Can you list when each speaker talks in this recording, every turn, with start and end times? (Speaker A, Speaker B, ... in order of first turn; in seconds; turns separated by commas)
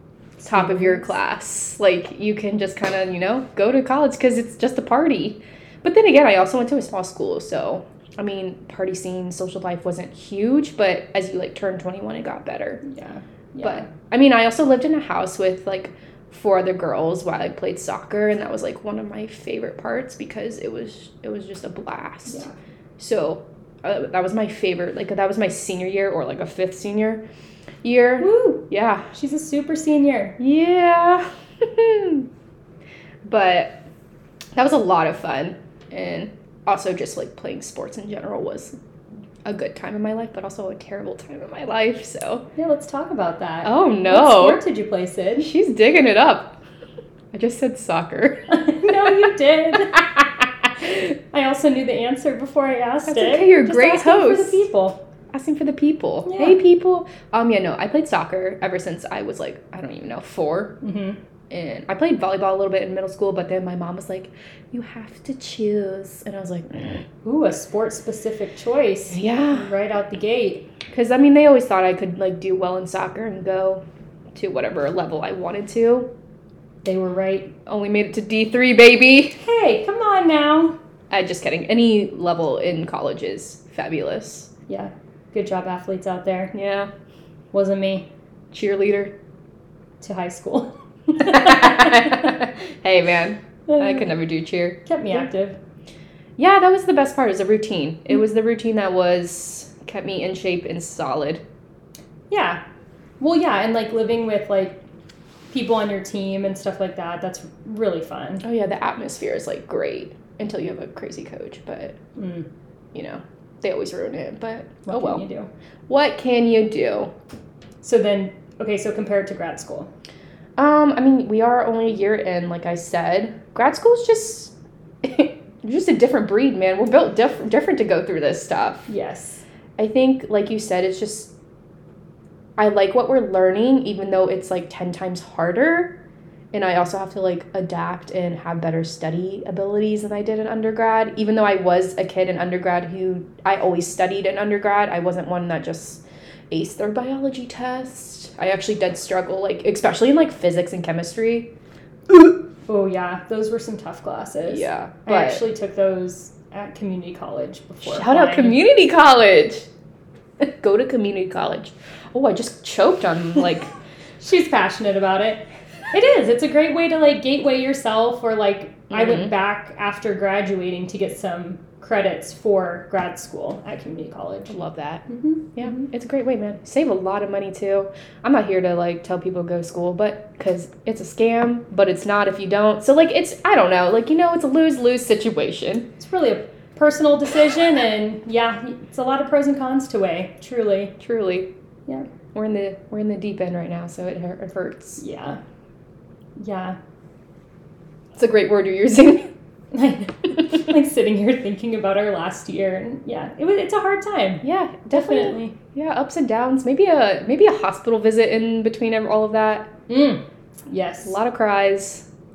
Speaker A: 0.4-1.1, Speaker B: 0.4-12.8, Speaker A: 12.8-13.9, Speaker B: 13.6-22.4, Speaker B: 23.0-27.2, Speaker B: 27.8-29.1, Speaker A: 28.2-30.4, Speaker B: 30.4-32.3, Speaker B: 33.2-33.8, Speaker B: 34.5-38.8, Speaker B: 39.4-42.5, Speaker A: 42.6-45.5, Speaker B: 43.6-44.6, Speaker B: 45.4-46.6, Speaker B: 47.3-49.0, Speaker A: 48.5-50.0, Speaker A: 50.8-55.0, Speaker B: 53.1-54.6, Speaker B: 55.3-60.8, Speaker A: 56.2-56.6, Speaker A: 60.8-61.2, Speaker B: 61.5-67.0, Speaker A: 67.2-70.7, Speaker B: 69.1-69.7, Speaker B: 70.9-73.8, Speaker B: 74.3-76.1, Speaker A: 76.8-77.5, Speaker B: 77.7-79.4, Speaker A: 79.4-80.8, Speaker B: 81.1-84.5, Speaker A: 84.7-86.5, Speaker B: 86.5-86.9, Speaker A: 87.5-88.1, Speaker B: 88.5-89.1, Speaker A: 90.0-92.4, Speaker B: 91.2-94.8, Speaker A: 93.7-94.1, Speaker A: 94.9-95.6, Speaker B: 96.4-101.4, Speaker A: 102.3-102.6, Speaker A: 103.2-104.8, Speaker A: 105.5-108.4, Speaker B: 108.4-112.0, Speaker A: 112.2-112.5, Speaker B: 112.9-115.2, Speaker A: 114.9-115.5, Speaker B: 115.9-117.1, Speaker A: 117.8-119.9, Speaker B: 120.6-128.9, Speaker A: 128.9-129.4, Speaker B: 129.8-131.3, Speaker B: 132.6-136.0, Speaker B: 136.5-151.5, Speaker B: 152.1-152.4, Speaker A: 152.7-158.6, Speaker B: 154.5-155.4, Speaker B: 157.8-159.7, Speaker B: 160.4-163.7, Speaker A: 164.2-174.6, Speaker B: 168.9-169.3, Speaker B: 174.5-185.9, Speaker A: 175.1-175.8, Speaker A: 186.0-190.9, Speaker B: 191.0-191.5, Speaker B: 192.3-195.0, Speaker A: 195.0-195.4, Speaker A: 196.4-196.8, Speaker B: 198.2-199.3, Speaker A: 199.7-205.6, Speaker B: 204.4-209.7, Speaker A: 209.9-211.2, Speaker B: 211.0-212.1